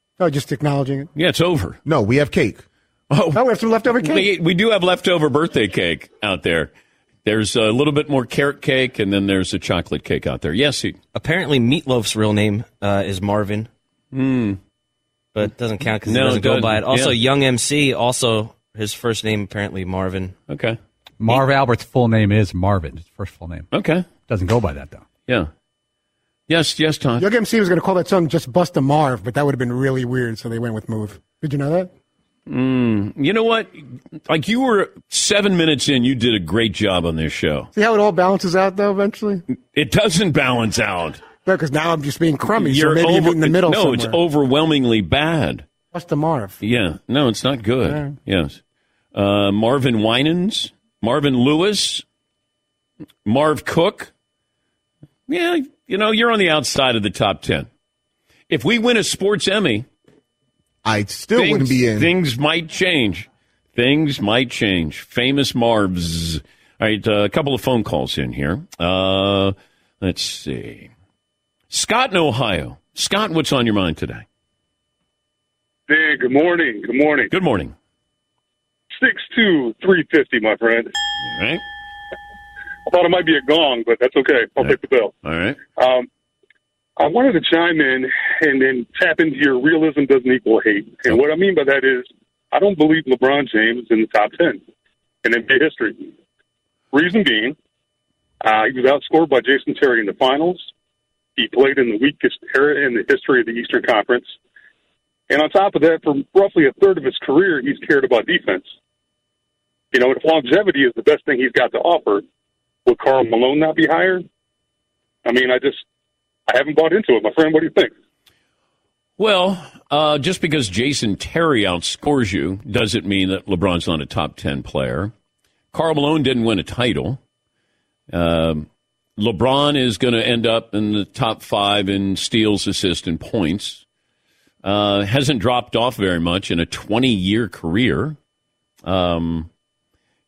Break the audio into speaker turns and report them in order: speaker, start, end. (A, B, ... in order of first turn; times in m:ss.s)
0:00.2-0:01.1 A
0:01.1-0:01.8 B
0:01.8-0:02.6 C
0:03.1-0:06.7 B
0:03.3-0:04.3 A
0:07.2-0:11.0 B
0:11.1-0:13.7 D
0:14.1-0:14.6 B
0:15.3-0:20.4 D
0:16.0-0:17.2 B
0:20.5-0:20.8 B
0:21.2-0:23.7 E
0:23.7-0:24.1 B
0:24.3-0:25.0 E
0:26.5-0:27.2 B
0:27.2-0:31.9 A
0:32.5-0:37.7 B
0:37.7-0:39.4 A
0:39.7-0:41.2 B
0:41.4-0:44.2 A
0:42.5-0:45.6 B
0:45.9-0:46.6 A
0:46.6-0:48.6 B
0:47.8-0:48.1 A
0:49.1-0:52.0 B
0:53.2-0:54.1 B
0:55.3-0:57.7 B
0:58.5-0:59.8 B
1:00.8-1:02.1 C
1:01.3-1:10.9 B
1:11.7-1:14.2 B
1:15.9-1:17.3 F
1:17.3-1:17.7 B
1:19.0-1:20.9 F
1:21.2-1:21.6 B
1:22.8-1:25.1 F
1:24.6-1:25.6 B
1:25.8-1:26.1 F
1:27.0-1:34.6 F
1:35.2-1:36.1 F
1:36.9-1:37.6 F
1:38.4-1:40.7 F
1:41.4-1:44.3 F
1:45.3-1:48.7 F
1:49.9-1:52.2 F
1:52.8-1:54.2 F
1:55.2-1:55.8 F
1:56.5-1:57.9 F
1:59.2-2:05.1 B
2:05.7-2:07.2 B
2:08.1-2:13.8 B
2:14.6-2:18.2 B
2:18.8-2:19.5 B